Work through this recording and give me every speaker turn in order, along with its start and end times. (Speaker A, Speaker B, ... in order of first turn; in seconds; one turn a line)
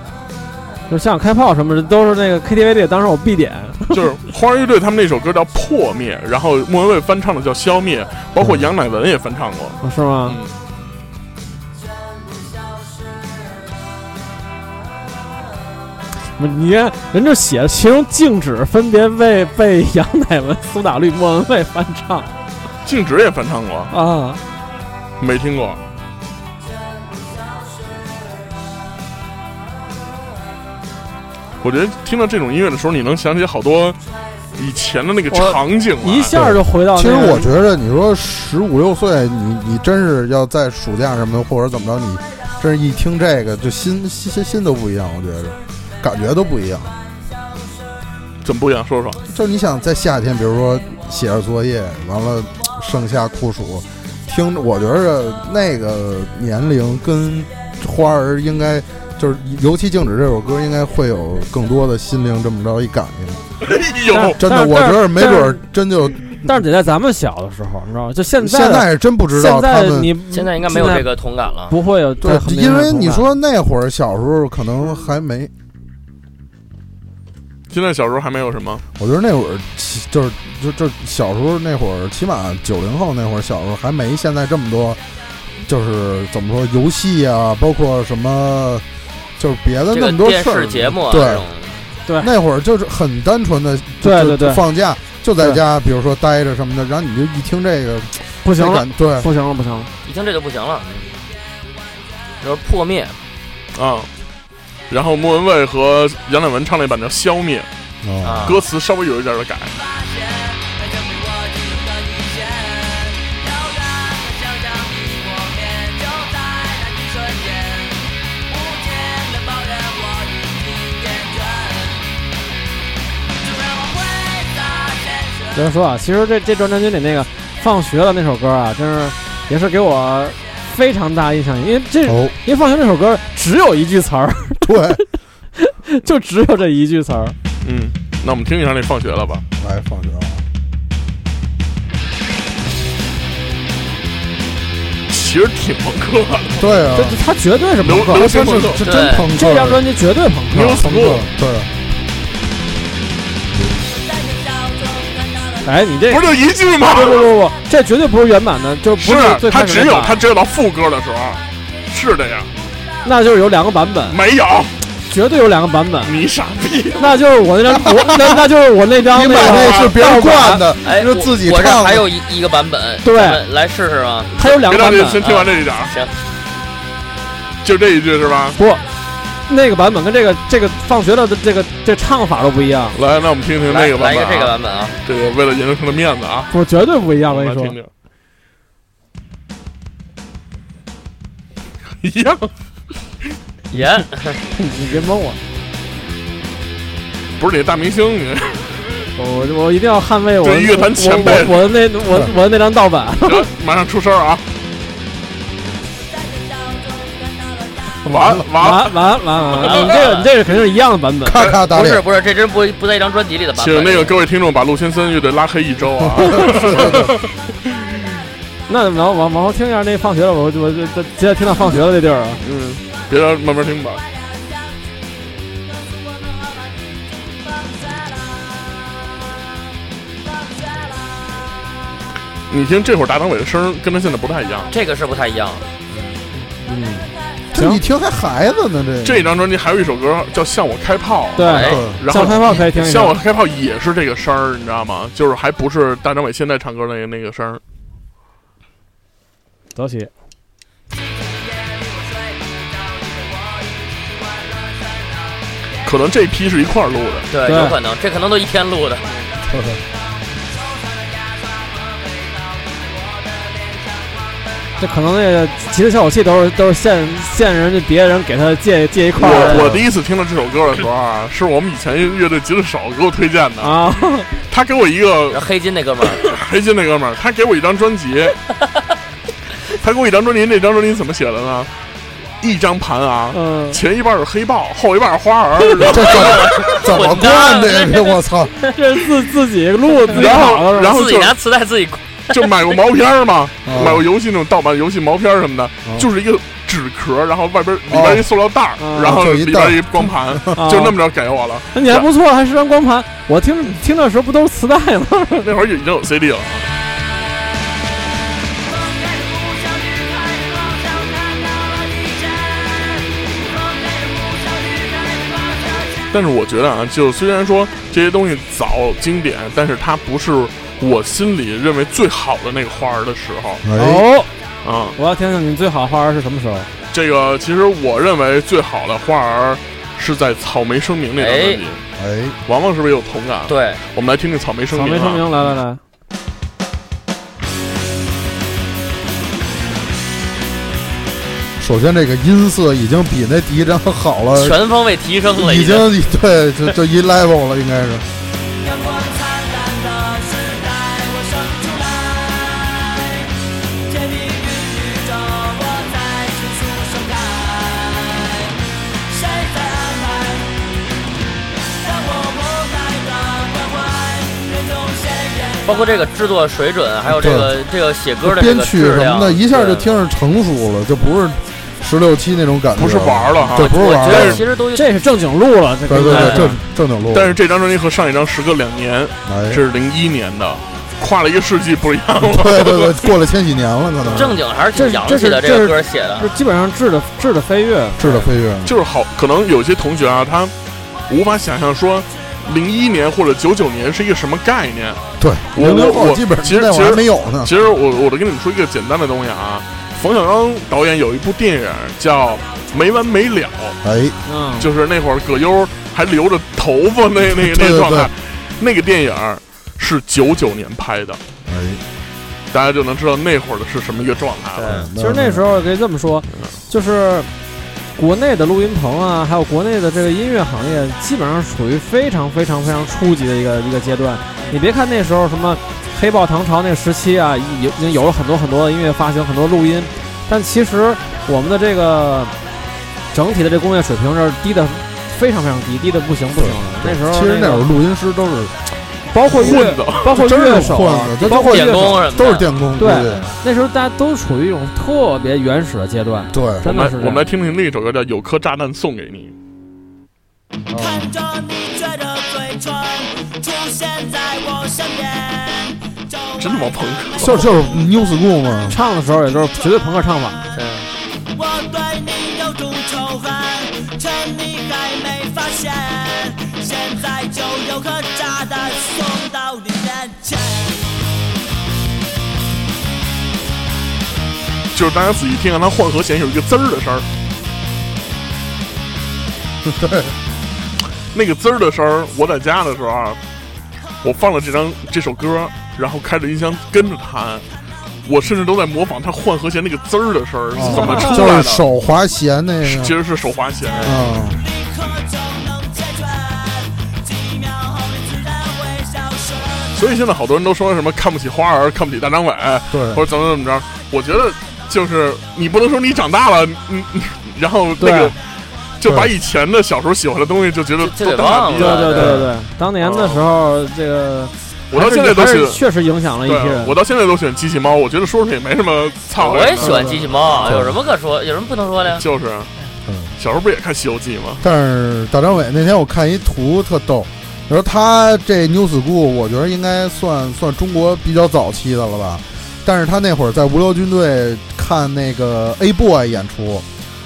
Speaker A: 0.9-4.1
Speaker B: 3.9-10.5
Speaker C: 8.4-8.7
Speaker A: 9.8-10.4
Speaker D: 12.4-13.2
Speaker A: 16.4-22.3
Speaker B: 22.9-23.9
Speaker A: 23.9-24.4
Speaker B: 25.2-25.8
Speaker B: 31.6-34.0
Speaker B: 34.5-36.4
Speaker A: 35.3-37.5
Speaker C: 36.3-47.0
Speaker B: 48.4-49.2
Speaker C: 49.3-63.4
Speaker B: 63.6-64.4
Speaker A: 64.1-65.6
Speaker C: 64.4-66.5
Speaker A: 66.4-71.1
Speaker C: 68.4-70.2
Speaker E: 70.3-71.8
Speaker A: 71.7-73.2
Speaker C: 72.2-75.5
Speaker B: 77.7-78.8
Speaker C: 79.0-85.0
Speaker C: 85.7-88.8
Speaker C: 89.4-91.5
Speaker E: 89.9-91.8
Speaker A: 92.1-92.3
Speaker C: 92.2-99.3
Speaker A: 94.0-94.6
Speaker A: 98.4-99.9
Speaker E: 100.0-101.2
Speaker E: 102.4-103.2
Speaker B: 103.7-104.1
Speaker B: 104.9-107.7
Speaker C: 108.0-108.6
Speaker E: 108.2-108.6
Speaker B: 108.5-109.7
Speaker D: 109.8-122.2
Speaker D: 123.4-125.6
Speaker A: 125.5-135.0
Speaker C: 132.1-132.3
Speaker C: 134.7-135.0
Speaker A: 135.6-137.4
Speaker B: 137.6-139.4
Speaker C: 139.6-140.4
Speaker B: 145.1-146.8
Speaker C: 146.6-147.2
Speaker A: 146.9-148.6
Speaker B: 147.8-148.8
Speaker C: 148.1-149.8
Speaker E: 148.8-149.3
Speaker A: 149.3-150.8
Speaker B: 150.5-151.3
Speaker C: 150.8-151.7
Speaker D: 154.0-155.7
Speaker A: 155.6-156.3
Speaker B: 156.1-157.3
Speaker A: 156.8-160.2
Speaker B: 159.0-162.5
Speaker A: 163.0-164.2
Speaker B: 164.1-164.7
Speaker A: 165.1-166.2
Speaker B: 166.0-167.2
Speaker A: 167.0-170.7
Speaker C: 169.1-172.1
Speaker B: 169.4-169.9
Speaker E: 170.8-174.3
Speaker A: 173.0-173.4
Speaker A: 174.4-175.3
Speaker B: 174.4-175.9
Speaker E: 175.2-176.1
Speaker B: 177.6-178.6
Speaker A: 178.6-178.8
Speaker A: 179.5-183.0
Speaker B: 182.9-186.5
Speaker E: 183.7-185.0
Speaker A: 186.5-187.8
Speaker B: 187.3-187.9
Speaker B: 192.0-192.5
Speaker E: 193.7-194.4
Speaker A: 194.6-195.4
Speaker B: 197.4-199.1
Speaker A: 199.2-203.5
Speaker B: 200.4-201.7
Speaker B: 203.2-204.4
Speaker D: 206.2-208.0
Speaker B: 208.0-209.0
Speaker C: 208.2-208.5
Speaker A: 208.6-211.4
Speaker E: 209.6-210.3
Speaker C: 211.2-212.0
Speaker E: 211.4-214.2
Speaker B: 213.6-217.3
Speaker C: 216.1-217.2
Speaker A: 218.7-222.4
Speaker B: 222.4-224.0
Speaker B: 232.5-234.7
Speaker E: 234.7-235.7
Speaker A: 236.6-237.8
Speaker C: 237.5-239.3
Speaker B: 239.0-247.6
Speaker A: 241.4-243.2
Speaker E: 241.4-241.8
Speaker C: 241.6-242.6
Speaker A: 249.8-250.1
Speaker D: 251.0-255.4
Speaker B: 255.8-257.3
Speaker E: 257.3-259.1
Speaker A: 257.4-257.8
Speaker C: 259.5-259.8
Speaker D: 260.5-264.4
Speaker A: 264.8-269.8
Speaker B: 269.2-273.8
Speaker C: 269.4-269.8
Speaker A: 273.6-274.3
Speaker B: 274.5-275.5
Speaker E: 275.3-276.3
Speaker B: 276.0-278.4
Speaker B: 279.7-281.7
Speaker B: 282.4-286.8
Speaker A: 283.3-283.8
Speaker E: 285.8-288.0
Speaker C: 285.8-288.7
Speaker A: 288.7-291.1
Speaker B: 290.1-291.4
Speaker E: 290.1-292.5
Speaker B: 292.3-302.1
Speaker C: 293.6-294.1
Speaker C: 297.9-298.3
Speaker A: 298.8-299.2
Speaker C: 299.0-300.4
Speaker A: 300.6-301.0
Speaker A: 301.7-305.5
Speaker B: 305.4-306.7
Speaker D: 308.5-316.1
Speaker B: 316.1-323.6
Speaker C: 323.6-324.1
Speaker A: 323.8-324.3
Speaker B: 324.6-325.0
Speaker A: 325.0-326.7
Speaker B: 326.9-331.8
Speaker E: 331.2-331.6
Speaker C: 332.0-332.4
Speaker B: 332.5-335.3
Speaker E: 333.5-333.8
Speaker A: 334.7-335.8
Speaker C: 341.6-344.6
Speaker E: 344.4-345.9
Speaker C: 345.3-348.1
Speaker D: 348.5-360.8
Speaker D: 361.7-365.9
Speaker E: 365.6-369.9
Speaker C: 367.1-367.6
Speaker C: 368.2-374.4
Speaker B: 372.8-374.4
Speaker E: 373.5-374.9
Speaker A: 374.7-376.6
Speaker C: 375.9-377.4
Speaker E: 376.1-376.5
Speaker B: 377.1-383.1
Speaker C: 379.3-379.6
Speaker C: 382.2-384.4
Speaker E: 384.1-386.3
Speaker A: 384.7-388.1
Speaker C: 388.0-388.7
Speaker B: 388.6-390.5
Speaker B: 391.1-395.0
Speaker C: 395.2-397.5
Speaker B: 395.5-403.8
Speaker C: 403.8-404.2
Speaker A: 404.3-404.7
Speaker B: 404.6-411.2
Speaker C: 407.3-408.1
Speaker C: 411.5-411.8
Speaker B: 412.5-414.8
Speaker E: 414.6-414.9
Speaker C: 414.6-415.5
Speaker A: 415.0-417.3
Speaker A: 418.0-432.3
Speaker A: 433.1-437.7
Speaker C: 436.4-438.5
Speaker A: 439.1-442.1
Speaker C: 439.3-443.4
Speaker B: 439.4-440.3
Speaker E: 441.2-442.5
Speaker A: 442.8-447.2
Speaker C: 446.3-446.7
Speaker B: 446.6-449.3
Speaker C: 450.7-451.1
Speaker D: 450.8-457.6
Speaker B: 456.4-457.5
Speaker C: 457.2-458.8
Speaker A: 458.7-460.4
Speaker E: 460.5-460.9
Speaker D: 461.3-470.9
Speaker B: 474.7-477.1
Speaker C: 479.6-480.1
Speaker B: 481.1-483.2
Speaker B: 484.0-487.4
Speaker B: 488.1-491.6
Speaker C: 490.5-492.9
Speaker A: 490.7-491.2
Speaker B: 492.6-494.0
Speaker D: 493.8-499.8
Speaker C: 493.8-494.4
Speaker B: 499.8-508.2
Speaker C: 502.7-503.0
Speaker A: 507.8-508.1
Speaker B: 508.8-512.2
Speaker C: 508.9-509.1
Speaker E: 510.8-512.2
Speaker A: 511.5-516.8
Speaker C: 512.0-512.3
Speaker B: 512.8-513.3
Speaker B: 514.7-515.6
Speaker B: 516.2-520.7
Speaker E: 519.2-522.0
Speaker C: 519.6-520.8
Speaker A: 519.6-520.0
Speaker B: 521.9-522.5
Speaker C: 522.9-523.1
Speaker B: 523.2-524.4
Speaker C: 524.4-536.6